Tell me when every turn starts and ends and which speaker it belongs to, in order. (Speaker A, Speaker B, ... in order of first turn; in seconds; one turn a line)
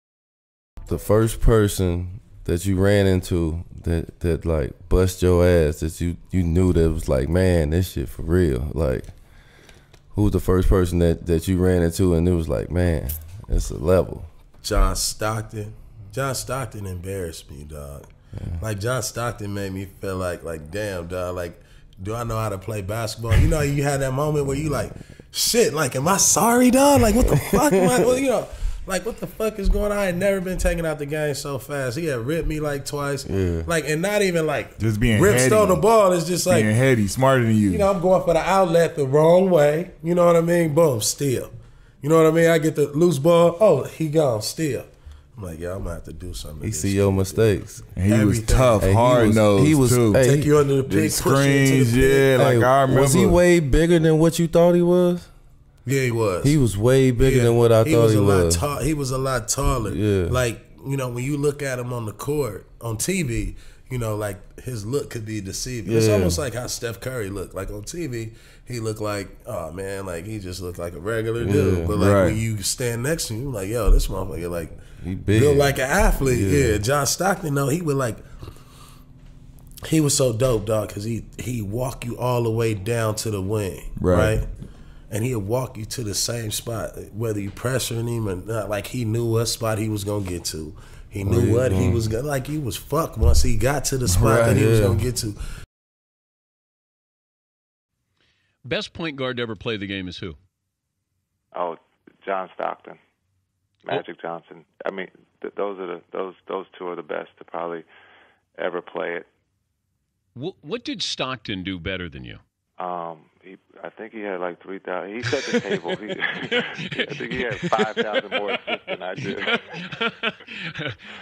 Speaker A: 0.9-14.3
Speaker B: 14.6-36.8
Speaker A: 18.4-18.6
Speaker A: 33.3-33.7
Speaker C: 34.8-35.8
Speaker C: 36.5-37.9
Speaker B: 37.7-48.8
Speaker A: 46.6-47.9
Speaker C: 47.9-50.2
Speaker A: 48.8-50.7
Speaker B: 50.1-52.4
Speaker C: 50.9-53.4
Speaker A: 51.4-55.3
Speaker B: 55.9-78.2
Speaker A: 56.4-58.7
Speaker A: 59.8-60.4
Speaker A: 65.8-66.4
Speaker A: 71.4-72.4
Speaker A: 75.0-76.8
Speaker B: 79.8-84.5
Speaker B: 85.1-95.4
Speaker A: 91.2-92.0
Speaker A: 94.1-95.0
Speaker D: 98.7-100.4
Speaker E: 101.5-103.0
Speaker E: 103.9-107.9
Speaker E: 108.6-109.3
Speaker D: 110.4-112.4
Speaker E: 112.8-119.8
Speaker D: 116.6-118.2
Speaker D: 119.2-121.0